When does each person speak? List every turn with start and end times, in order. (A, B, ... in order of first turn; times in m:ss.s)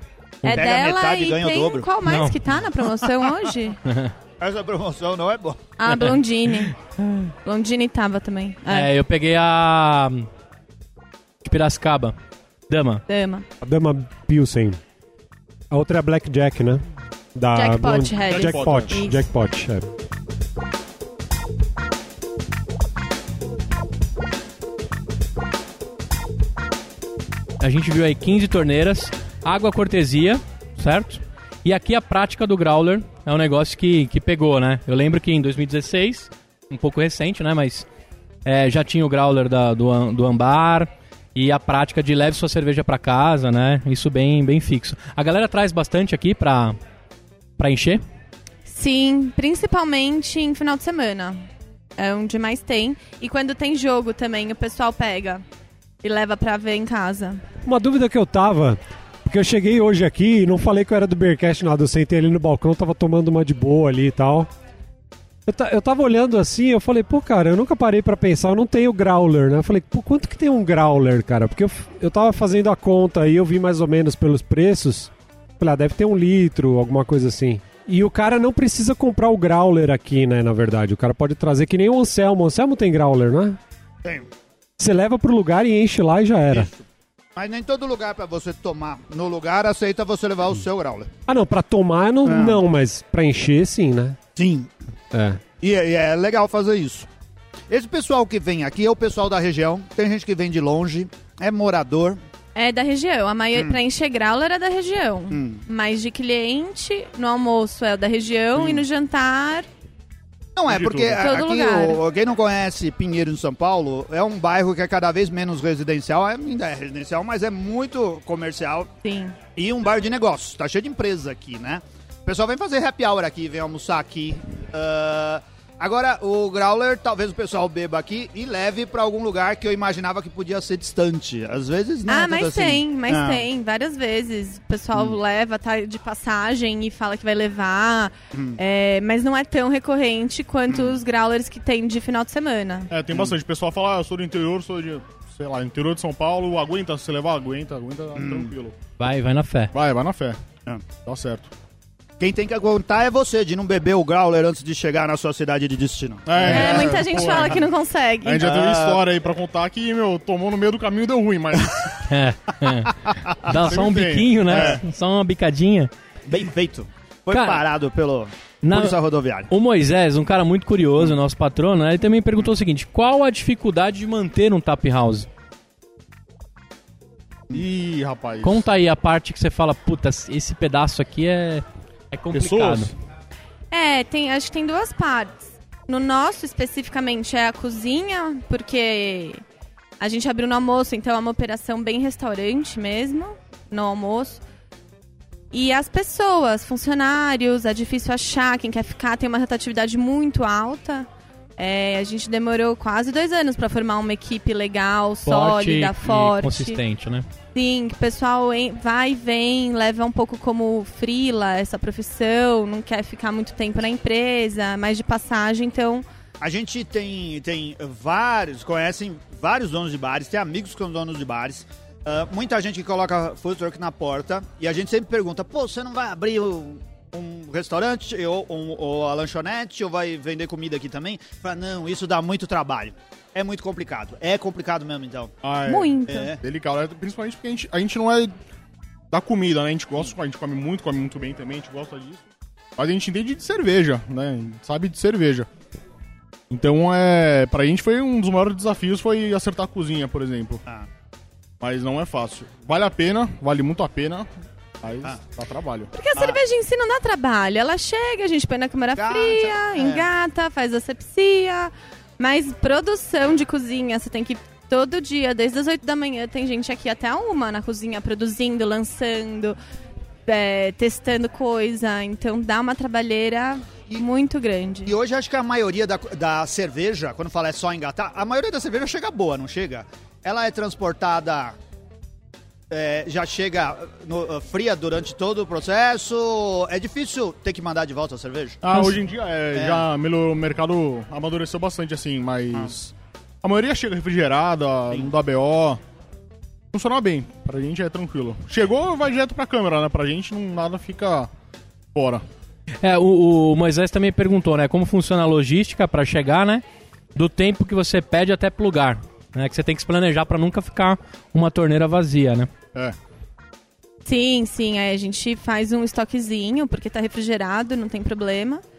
0:00.4-0:01.9 A
0:00.4-0:03.8 B
0:02.1-0:02.4 C
0:03.9-0:04.1 C
0:04.4-0:05.6 A
0:05.8-0:08.9 B
0:05.9-0:06.7 C
0:08.7-0:10.3 C
0:11.4-0:12.2 C
0:12.7-0:13.0 C
0:13.1-0:13.5 B
0:13.6-0:14.8 D
0:15.7-0:16.8 D
0:17.4-0:19.9 D
0:17.5-0:19.3 B
0:18.3-0:19.0 E
0:27.6-0:37.9 C
0:38.4-0:46.8 C
0:47.6-0:48.0 C
0:48.7-0:51.4 B
0:52.0-0:55.4 B
0:56.0-0:57.4 B
0:57.6-1:04.5 D
1:05.5-1:23.6 D
1:24.8-1:26.7 D
1:26.5-1:31.1 A
1:31.3-1:34.2 D
1:32.2-1:32.6 A
1:34.4-1:34.7 A
1:35.1-1:35.4 D
1:35.6-1:37.1 A
1:37.7-1:42.2 A
1:42.6-1:49.7 B
1:45.3-1:45.6 A
1:50.6-1:58.9 A
1:50.7-1:51.2 E
1:51.2-1:52.0 B
1:59.0-1:59.4 B
1:59.6-2:13.5 A
2:12.1-2:22.9 B
2:20.7-2:21.0 A
2:22.9-2:28.8 E
2:28.2-2:28.5 A
2:29.0-2:29.7 C
2:29.7-2:30.4 E
2:30.9-2:31.5 E
2:32.2-2:37.5 A
2:36.3-2:37.6 E
2:36.4-2:38.5 B
2:38.2-2:42.0 E
2:38.4-2:39.0 A
2:42.0-2:45.9 C
2:43.5-2:44.8 E
2:46.3-2:49.5 A
2:47.3-2:47.6 C
2:48.6-2:49.0 C
2:49.5-2:55.3 C
2:57.5-2:58.6 E
2:58.4-3:02.9 C
3:02.3-3:02.9 E
3:03.7-3:09.4 B
3:10.0-3:14.4 B
3:15.5-3:26.8 B
3:25.3-3:27.3 C
3:27.6-3:36.0 B
3:36.4-3:55.3 A
3:55.4-3:58.3 E
3:55.7-3:56.3 B
3:56.1-3:56.4 A
3:59.1-4:02.2 E
4:02.8-4:05.5 E
4:06.5-4:10.6 E
4:11.6-4:14.3 E
4:14.8-4:15.9 E
4:15.9-4:29.6 B
4:19.0-4:20.1 A
4:30.3-4:34.9 B
4:34.9-4:41.6 A
4:42.7-4:48.9 A
4:48.6-4:55.8 E
4:49.5-4:49.9 A
4:56.7-5:01.3 E
5:01.9-5:02.2 E
5:02.8-5:06.6 C
5:07.2-5:12.5 C
5:14.0-5:18.6 B